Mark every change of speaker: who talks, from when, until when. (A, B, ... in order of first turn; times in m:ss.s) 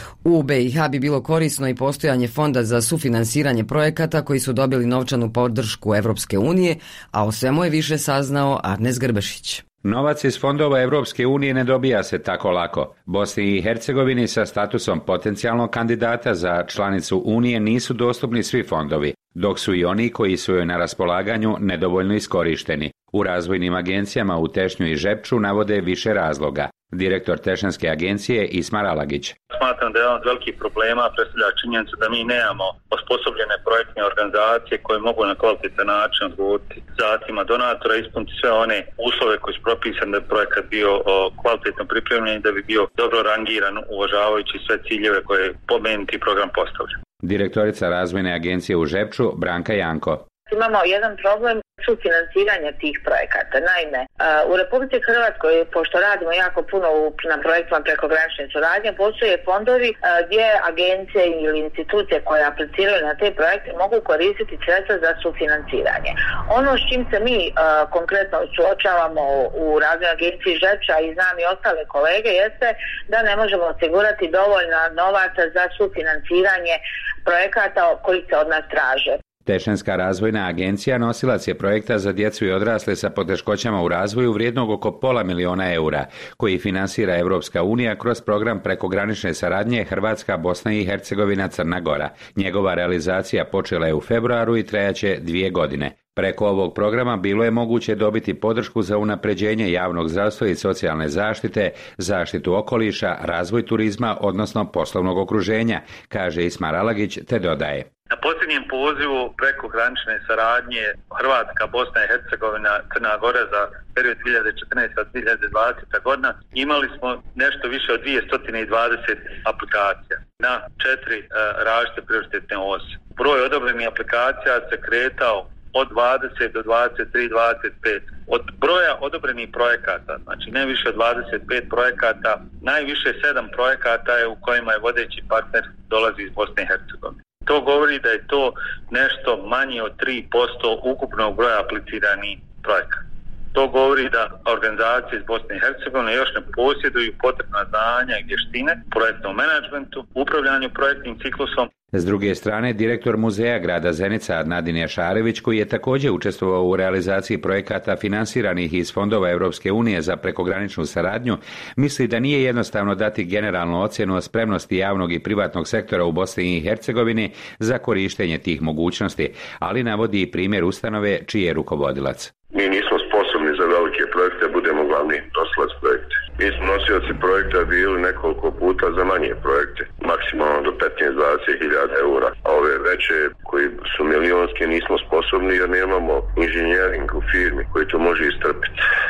0:00.2-0:09.6 A
0:09.8-0:29.4 B
0:29.5-0:47.0 C
0:47.2-0:50.2 B
0:50.5-1:19.2 D
1:19.5-1:47.9 B
1:48.1-2:23.0 C
2:23.5-2:31.7 C
2:31.9-2:52.3 B
2:52.5-3:08.8 E